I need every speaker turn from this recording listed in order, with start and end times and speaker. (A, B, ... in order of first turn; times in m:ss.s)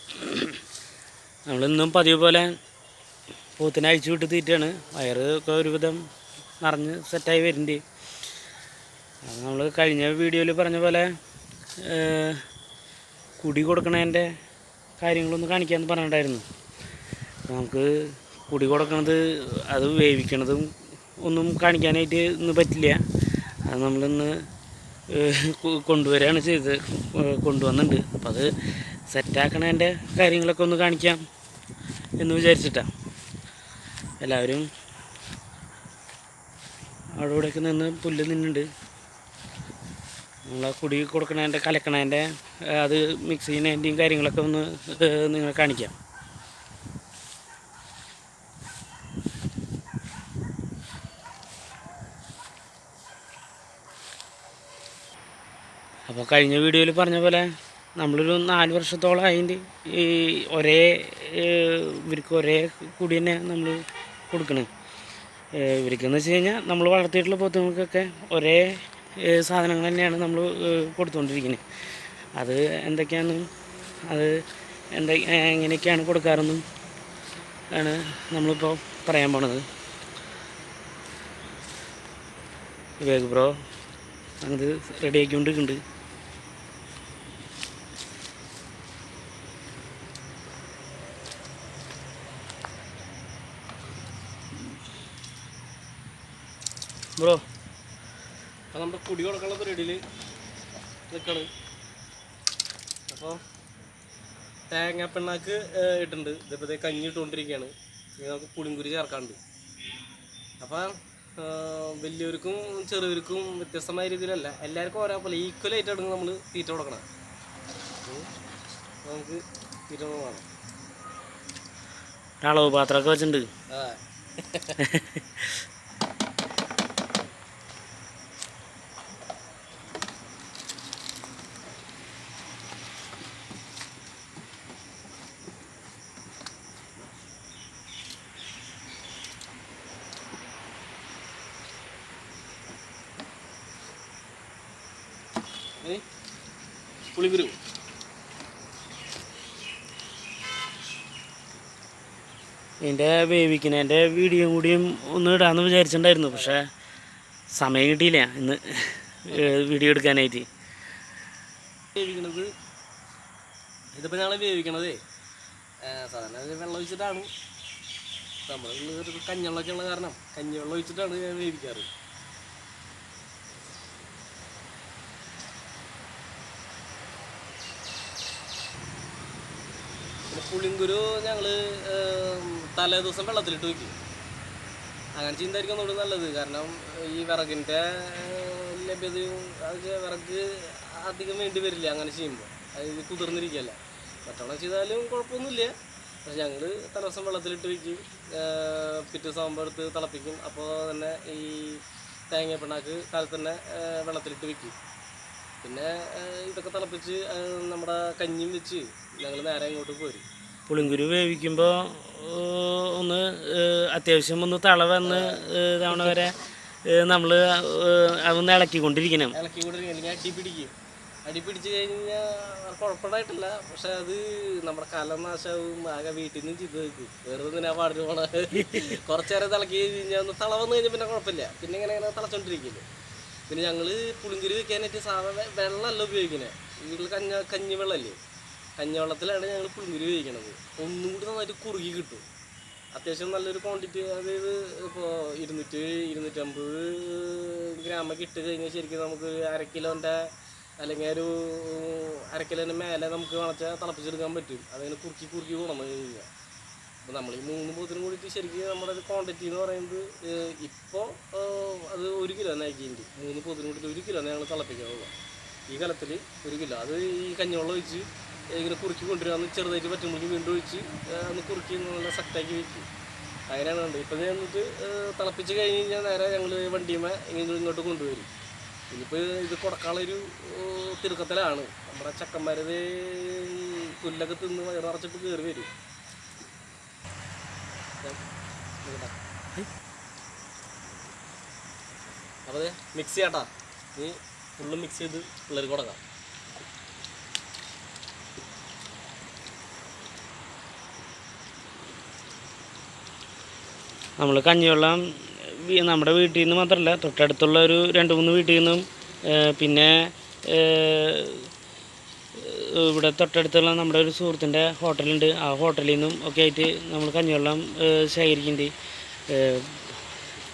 0:00.1-0:00.6 A
0:01.5-0:02.5 A
0:03.6-0:06.0 A
0:06.6-0:07.8 A
0:09.2-0:11.1 A
0:11.8-0:12.4 A
0:13.4-0:14.3 A
0:15.0-0:16.4 A
0:17.5-0:17.9 A
0:18.5-0:20.7 A
0:21.2-0:23.0 A
0:23.7-0:24.3 A
0:25.1-0:28.5 A
0:29.1-0:31.2 A
0:32.2-0:32.9 A
0:34.2-0:34.7 A
0:37.2-0:38.7 A
0:40.5-0:46.0 A
0:56.1-0:57.5 A
0:58.0-1:03.8 A
1:04.3-1:04.7 A
1:05.6-1:08.7 A
1:09.2-1:11.6 A
1:12.4-1:13.5 A
1:15.0-1:16.6 A
1:17.8-1:19.6 A
1:23.0-1:23.5 A
1:24.4-1:25.8 A
1:38.7-1:40.0 B
1:41.1-1:41.5 B
1:43.1-1:43.4 B
1:44.7-1:49.4 B
1:50.6-1:57.0 B
1:59.0-2:00.4 B
2:02.4-2:03.5 A
2:03.7-2:04.8 B
2:04.8-2:05.5 A
2:27.1-2:27.6 B
2:32.8-2:36.7 A
2:36.3-2:36.6 B
2:37.5-2:40.5 A
2:42.0-2:42.5 B
2:44.0-2:45.0 B
2:45.9-2:47.3 B
2:48.4-2:51.9 B
3:00.3-3:04.0 B
3:05.2-3:15.7 B
3:16.2-3:24.8 B
3:25.6-3:30.2 B
3:30.7-3:36.4 A
3:35.0-3:36.2 B
3:36.9-3:39.4 A
3:39.3-3:40.7 B
3:41.3-3:52.8 B
3:53.5-3:58.2 B
3:58.8-4:02.2 B
4:02.9-4:10.2 B
4:10.8-4:16.3 B
4:17.0-4:25.1 B
4:25.7-4:32.9 B
4:33.5-4:38.3 B
4:38.9-4:45.7 B
4:48.8-4:49.2 B
4:52.5-4:56.0 B
5:04.2-5:11.5 A
5:12.4-5:18.7 A
5:19.3-5:19.9 A